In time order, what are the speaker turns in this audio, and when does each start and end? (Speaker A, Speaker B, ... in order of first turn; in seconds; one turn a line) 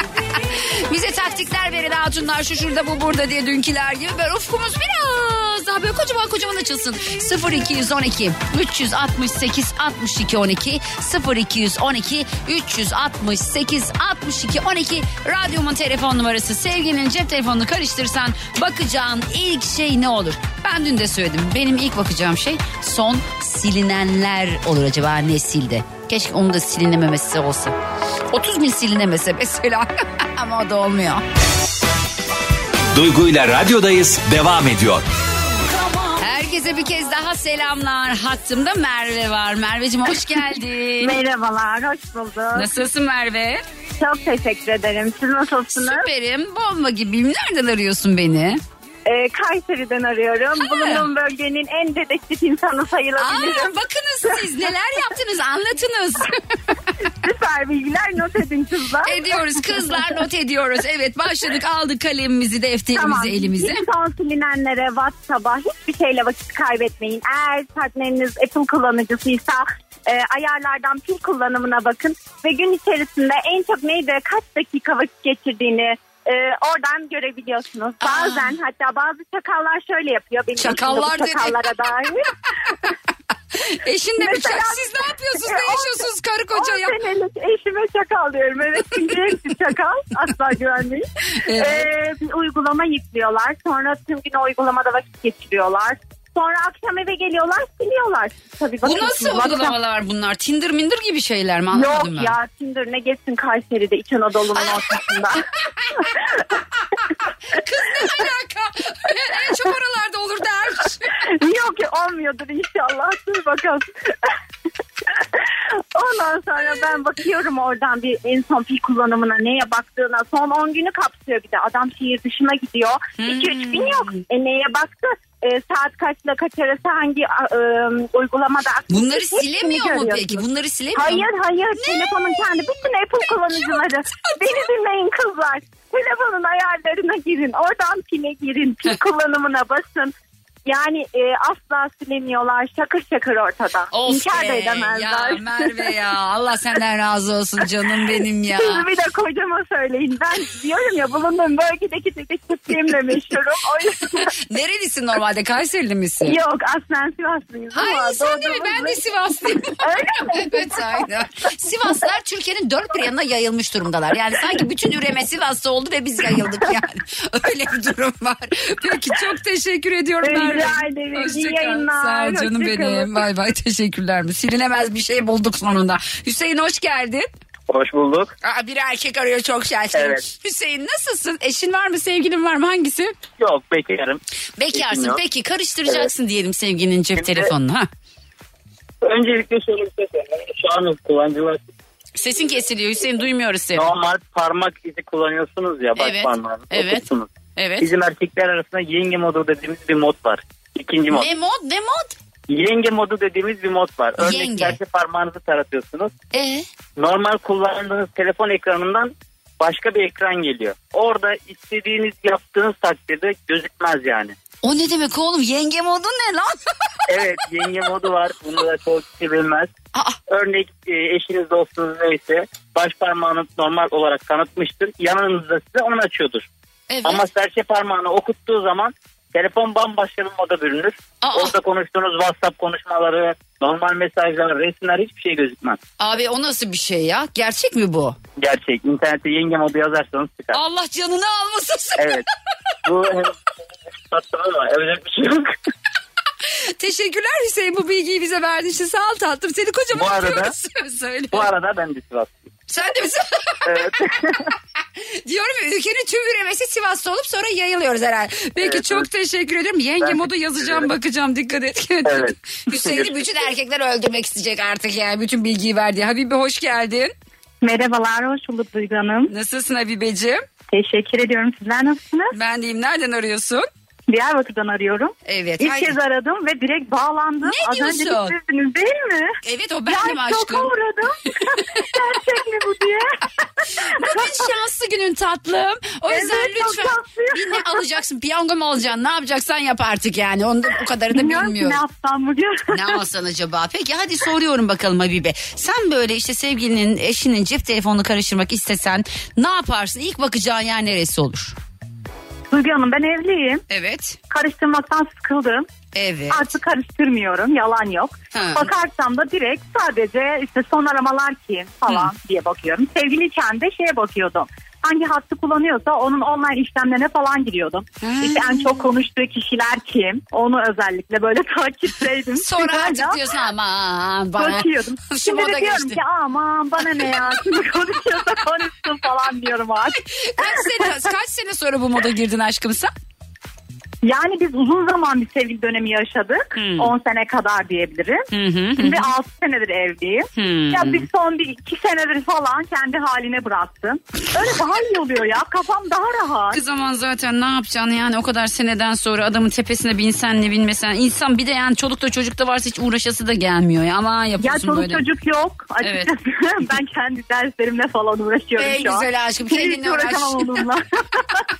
Speaker A: 0.4-27.8
Speaker A: 28.3-31.2
Speaker B: 32.9-35.1
Speaker A: 35.8-41.2
Speaker C: 41.0-42.7
Speaker A: 42.5-43.6
Speaker C: 44.0-46.1
Speaker A: 45.7-48.6
Speaker C: 49.1-53.7
Speaker A: 50.6-51.1
Speaker A: 53.2-56.9
Speaker C: 57.1-59.6
Speaker A: 59.1-63.8
Speaker C: 62.9-82.3
Speaker A: 78.0-78.5
Speaker A: 80.6-81.7
Speaker A: 83.6-86.9
Speaker C: 84.2-99.8
Speaker A: 91.4-91.9
Speaker A: 98.8-102.3
Speaker C: 101.7-105.5
Speaker A: 104.6-106.0
Speaker C: 106.0-106.3
Speaker A: 107.0-111.2
Speaker C: 111.3-114.3
Speaker C: 115.1-130.4
Speaker A: 123.2-124.2
Speaker A: 128.9-131.3
Speaker C: 130.9-140.1
Speaker A: 131.8-132.1
Speaker C: 140.7-145.9
Speaker A: 143.9-148.8
Speaker C: 148.6-154.3
Speaker A: 154.5-156.4
Speaker C: 156.2-159.0
Speaker A: 157.7-159.8
Speaker C: 159.8-160.8
Speaker A: 160.4-177.3
Speaker C: 170.2-173.2
Speaker D: 177.7-178.3
Speaker A: 178.4-183.1
Speaker D: 179.9-180.2
Speaker D: 183.4-184.2
Speaker A: 184.6-187.9
Speaker D: 184.7-185.2
Speaker D: 187.2-187.5
Speaker D: 189.0-191.6
Speaker A: 192.2-193.9
Speaker D: 193.8-197.3
Speaker A: 196.0-197.0
Speaker A: 197.6-197.9
Speaker D: 197.8-201.3
Speaker A: 201.1-202.1
Speaker D: 202.5-206.1
Speaker A: 204.2-204.8
Speaker A: 206.3-206.7
Speaker D: 207.0-214.3
Speaker A: 214.6-216.6
Speaker D: 217.1-219.7
Speaker D: 220.3-226.5
Speaker A: 226.9-227.3
Speaker D: 227.1-235.8
Speaker A: 231.2-231.6
Speaker A: 236.0-238.2
Speaker D: 238.4-240.6
Speaker A: 240.5-242.2
Speaker D: 242.0-242.2
Speaker D: 242.8-243.3
Speaker D: 244.1-245.6
Speaker A: 246.4-251.5
Speaker D: 249.9-250.5
Speaker D: 251.3-252.3
Speaker A: 252.7-254.0
Speaker D: 253.7-254.5
Speaker A: 255.0-267.1
Speaker D: 258.6-259.0
Speaker D: 262.1-263.1
Speaker C: 267.6-269.3
Speaker A: 269.3-270.4
Speaker C: 270.7-272.3
Speaker A: 272.3-273.7
Speaker C: 274.1-283.2
Speaker A: 275.3-275.9
Speaker A: 277.4-278.4
Speaker A: 279.4-280.7
Speaker A: 281.3-281.8
Speaker C: 283.8-284.4
Speaker A: 283.8-291.8
Speaker C: 286.1-287.7
Speaker C: 291.1-292.9
Speaker A: 292.7-301.6
Speaker C: 302.5-303.6
Speaker A: 303.7-304.2
Speaker C: 304.3-305.7
Speaker A: 305.9-306.5
Speaker C: 306.3-323.2
Speaker A: 308.3-308.7
Speaker A: 318.0-318.8
Speaker A: 322.4-326.0
Speaker C: 324.4-331.1
Speaker A: 330.1-332.9
Speaker C: 334.0-346.6
Speaker A: 336.6-336.9
Speaker A: 338.3-339.1
Speaker A: 340.4-341.1
Speaker A: 346.5-355.0
Speaker C: 354.4-361.4
Speaker A: 355.8-356.1
Speaker A: 358.6-360.6